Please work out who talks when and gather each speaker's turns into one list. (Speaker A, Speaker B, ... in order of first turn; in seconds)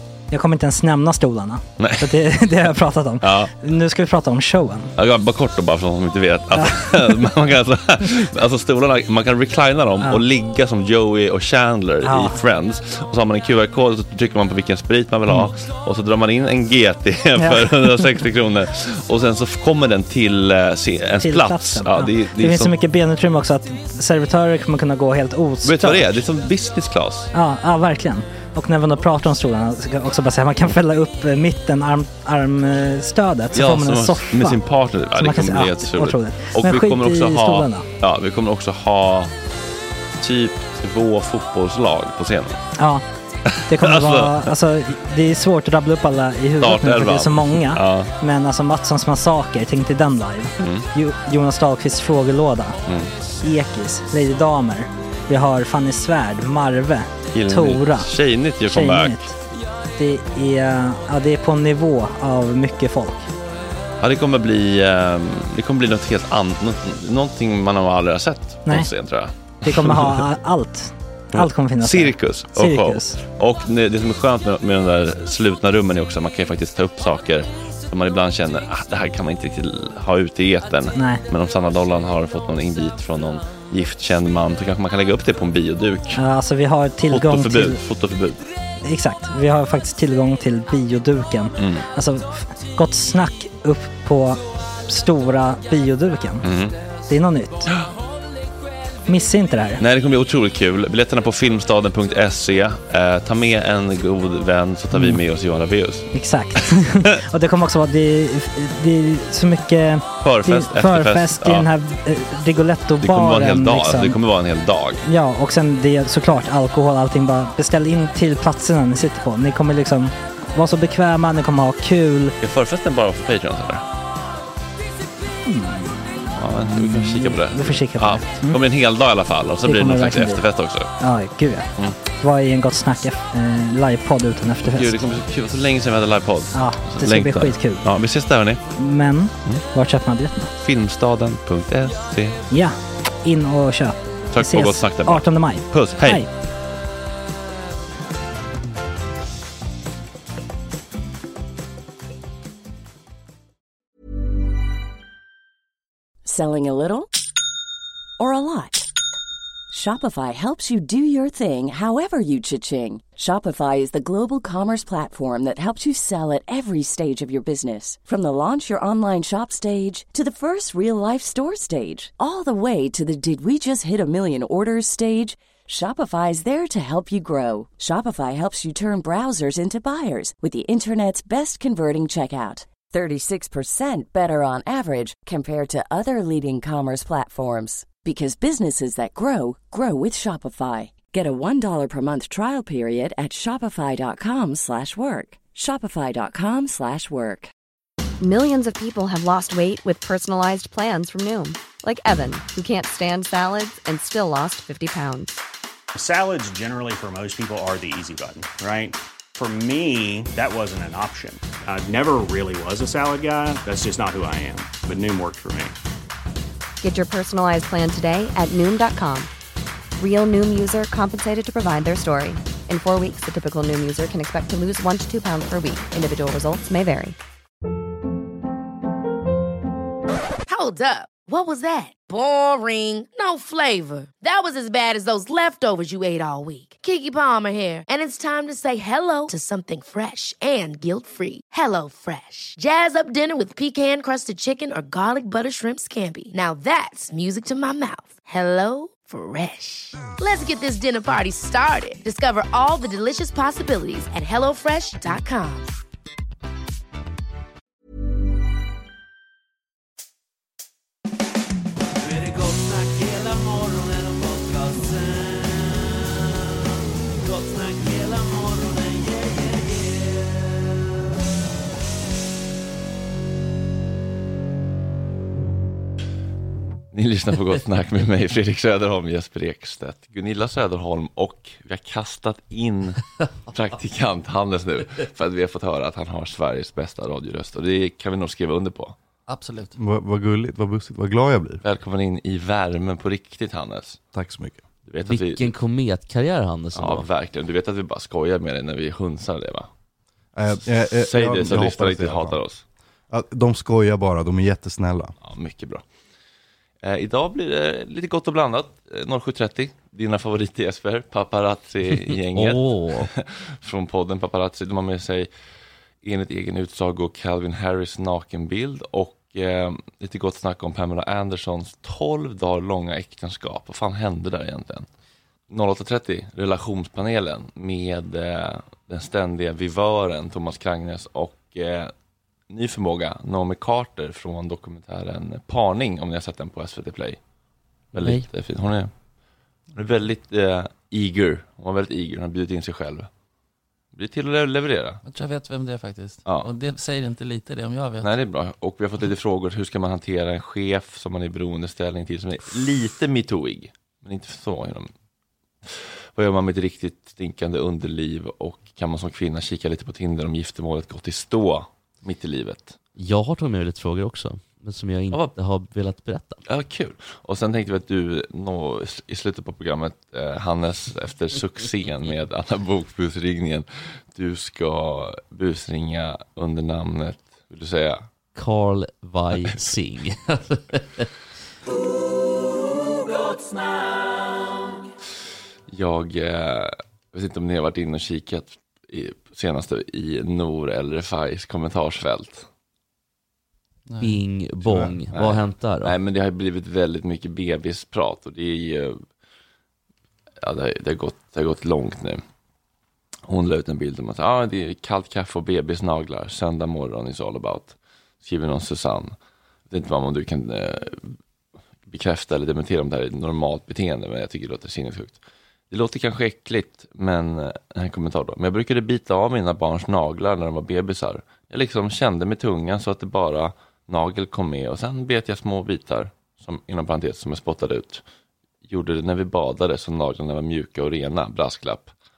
Speaker A: 0.3-4.9, 6.6-7.3, 12.0-12.4, 17.4-18.1, 21.2-26.2, 27.3-34.6, 35.2-37.9, 42.8-43.0, 43.7-52.8, 53.4-58.1, 58.7-59.4, 60.0-63.3, 69.6-73.2, 81.0-81.2, 86.2-87.8, 88.8-96.5, 97.1-97.7, 99.1-99.8, 104.9-105.2, 106.1-114.2, 115.1-122.3, 125.5-128.6, 129.6-130.4, 131.0-135.1, 136.5-137.8, 138.8-140.5, 142.5-146.3
Speaker B: 1.8-2.2, 3.2-3.5, 5.0-22.8, 25.6-27.3, 33.5-39.3, 40.2-42.6, 43.5-44.5, 46.6-48.1, 50.6-50.9, 57.3-59.2, 64.0-70.2, 71.3-86.2, 87.1-88.4, 91.6-91.8, 96.4-96.8, 99.8-106.1, 110.2-111.7, 113.0-115.0, 122.4-123.8, 126.4-130.9, 134.7-138.6, 140.6-142.4, 144.3-146.2, 276.9-289.0, 291.6-294.0, 294.9-295.5, 296.8-299.7, 300.5-302.6, 305.2-305.8, 306.8-315.3, 316.0-324.9, 325.5-331.9, 332.5-337.2, 337.9-338.9, 339.7-343.1, 343.9-345.0, 348.0-354.9, 355.7-362.8, 366.5-378.1, 385.7-392.5, 395.1-399.0, 400.4-402.2, 403.3-409.1, 409.7-411.2, 411.9-415.2, 415.7-428.0, 428.6-431.9
Speaker C: 156.2-157.1, 158.2-158.9, 159.7-197.5
Speaker D: 198.2-205.4, 216.8-219.3, 220.0-227.2
Speaker E: 205.9-215.8
Speaker F: 230.5-255.7
Speaker G: 262.1-265.5, 267.2-269.6, 289.3-289.8, 345.1-348.1, 393.9-394.2
Speaker H: 289.8-291.6, 294.1-294.6, 300.4-302.4, 303.1-305.1, 394.6-394.9
Speaker I: 295.0-297.1, 312.3-313.1, 338.0-338.3, 363.0-366.4, 378.4-381.1, 394.0-395.9